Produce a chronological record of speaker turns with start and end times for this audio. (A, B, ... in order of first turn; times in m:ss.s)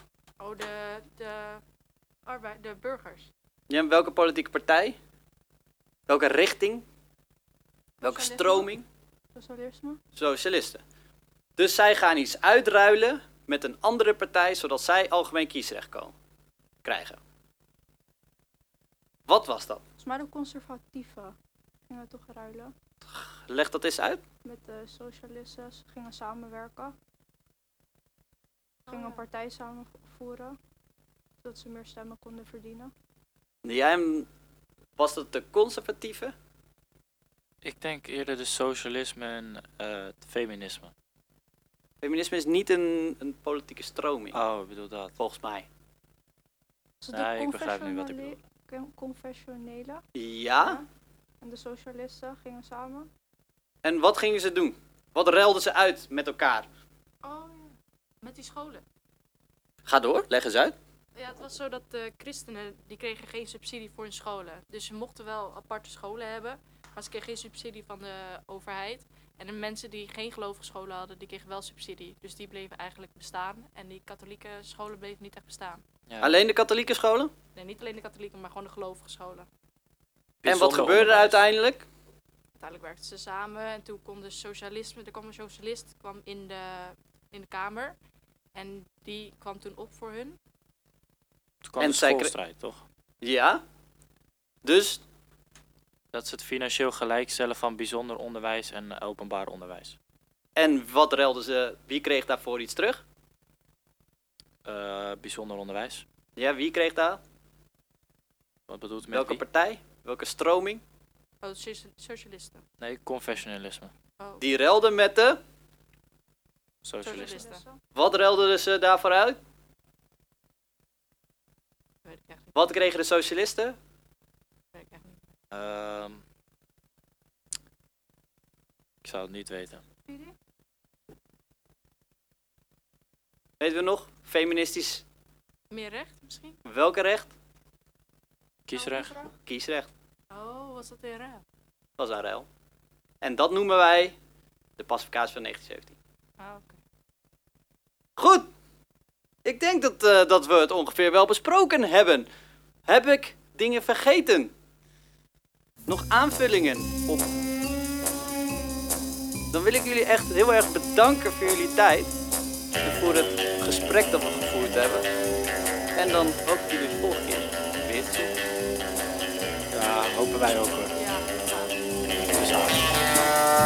0:00.4-0:01.6 A
0:02.2-0:03.3 A
0:03.7-0:05.0 B
0:06.1-0:06.8 B
0:08.0-0:08.7 A
0:08.0-0:08.8 B
0:09.3-0:10.0 C
0:10.2-0:10.8 B
0:11.6-0:16.1 B
0:16.8-0:17.2 B
0:19.3-0:19.8 B
0:20.0-0:21.3 C
0:21.9-0:22.7 C
0:23.1-0:24.2 B
0:24.4-0:27.0 C
0:28.9-0:29.2 A
0:28.9-0:30.6 C
0:31.4-0:32.9 C
0:33.6-0:34.3 B
0:35.0-0:36.3 B
0:37.6-0:40.9 D
0:42.0-0:44.4 B
0:44.3-0:45.2 D
0:45.2-0:45.7 B
0:47.0-0:50.0 C
0:47.1-0:48.4 D
0:50.1-0:50.8 B
0:50.6-0:50.9 C
0:51.4-0:53.1 C
0:53.8-0:56.7 B
0:57.2-0:58.8 A
0:59.8-1:00.7 B
1:01.1-1:15.8 A
1:16.1-1:16.4 D
1:16.2-1:17.3 B
1:17.5-1:19.5 A
1:20.4-1:21.4 D
1:20.4-1:21.8 B
1:22.6-1:28.0 A
1:28.5-1:30.4 A
1:31.6-1:32.8 D
1:31.8-1:32.3 B
1:33.2-1:33.6 B
1:34.6-1:35.0 B
1:36.1-1:40.0 D
1:40.6-1:43.0 B
1:44.6-1:46.0 D
1:46.4-1:47.2 B
1:48.7-1:49.4 D
1:49.1-1:50.8 B
1:51.4-1:52.6 A
1:52.8-1:53.9 D
1:54.2-1:54.5 A
1:54.4-1:55.4 B
1:56.8-1:57.4 D
1:57.0-1:57.6 A
1:57.0-1:57.8 C
1:57.9-1:59.4 B
2:02.0-2:02.5 A
2:02.5-2:03.8 B
2:04.7-2:05.3 A
2:05.5-2:06.2 D
2:09.0-2:09.8 D
2:10.1-2:10.3 C
2:13.6-2:15.0 B
2:15.7-2:16.6 A
2:16.6-2:17.3 B
2:18.6-2:19.2 D
2:18.8-2:19.3 C
2:19.4-2:19.9 B
2:20.3-2:21.4 A
2:22.0-2:22.5 B
2:23.2-2:24.2 B
2:24.8-2:26.0 B
2:26.4-2:26.8 A
2:28.2-2:28.5 B
2:29.4-2:32.3 B
2:32.9-2:34.5 B
2:35.8-2:37.2 B
2:39.5-2:42.1 B
2:42.8-2:45.0 B
2:46.0-2:48.3 B
2:49.7-2:50.9 D
2:50.9-2:51.8 A
2:52.0-2:52.9 D